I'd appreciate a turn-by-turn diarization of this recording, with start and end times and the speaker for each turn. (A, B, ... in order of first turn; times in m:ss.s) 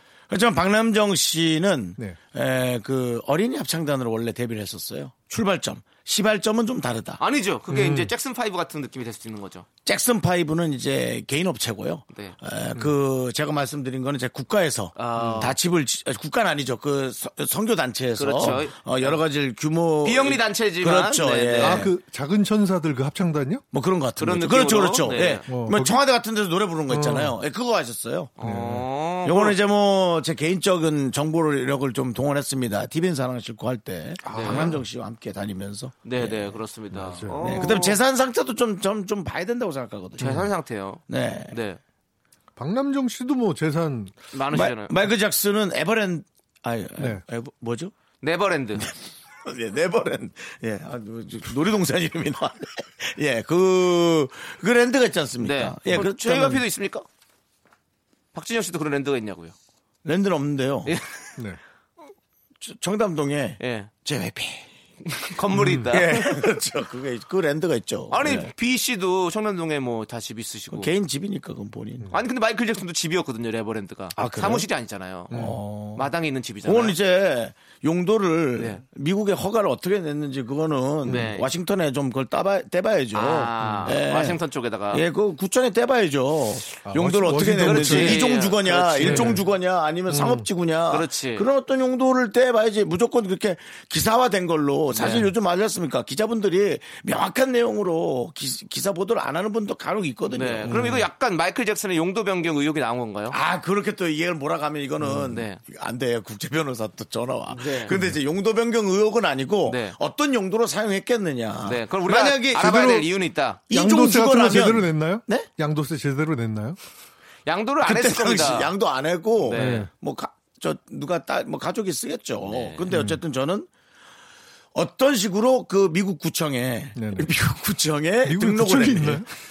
0:00.3-0:07.2 A
0:07.2-0:09.7 B
0:07.7-0:08.1 C
0:09.8-0:21.9 A
0:15.0-0:15.6 B
0:15.2-0:15.4 C
0:18.2-0:19.2 B
0:20.0-0:21.9 B
0:21.6-0:23.6 C
0:23.7-0:28.3 A
0:24.2-0:25.5 B
0:25.5-0:26.0 C
0:26.9-0:27.4 C
0:28.4-0:29.6 B
0:28.4-0:28.9 C
0:29.2-0:36.6 A
0:34.3-0:34.8 B
0:34.3-0:34.8 C
0:36.0-0:38.0 B
0:36.9-0:37.7 C
0:37.4-0:40.5 A
0:40.2-0:41.8 B
0:41.1-0:41.5 A
0:42.6-0:44.2 C
0:44.3-0:45.1 B
0:44.5-0:47.9 A
0:48.2-0:48.9 B
0:48.8-0:56.6 A
0:55.4-0:57.0 B
0:58.3-0:59.6 B
1:00.0-1:01.0 A
1:00.9-1:01.3 B
1:02.6-1:04.7 A
1:03.6-1:03.9 B
1:05.1-1:06.4 B
1:05.5-1:05.9 C
1:05.9-1:08.5 A
1:08.1-1:10.9 B
1:10.7-1:12.1 A
1:12.1-1:17.0 B
1:14.2-1:14.7 A
1:15.3-1:16.1 A
1:15.3-1:15.6 C
1:16.6-1:24.4 A
1:21.1-1:21.5 B
1:23.1-1:25.1 B
1:23.6-1:23.9 C
1:24.9-1:40.8 A
1:26.9-1:28.3 C
1:27.4-1:29.4 B
1:29.0-1:29.4 C
1:30.1-1:30.4 C
1:30.9-1:31.5 B
1:34.9-1:35.3 B
1:40.3-1:43.4 B
1:40.7-1:41.1 C
1:43.3-1:52.9 A
1:45.1-1:45.6 B
1:47.5-1:48.0 B
1:49.7-1:50.0 B
1:51.6-1:53.6 B
1:52.6-1:53.1 C
1:53.7-1:55.5 A
1:53.7-1:56.8 C
1:57.5-1:58.7 B
1:57.8-2:03.7 A
1:59.4-1:59.9 B
1:59.5-1:59.9 C
2:02.5-2:02.9 B
2:02.9-2:03.2 C
2:04.7-2:09.3 A
2:07.0-2:07.3 C
2:08.2-2:09.3 C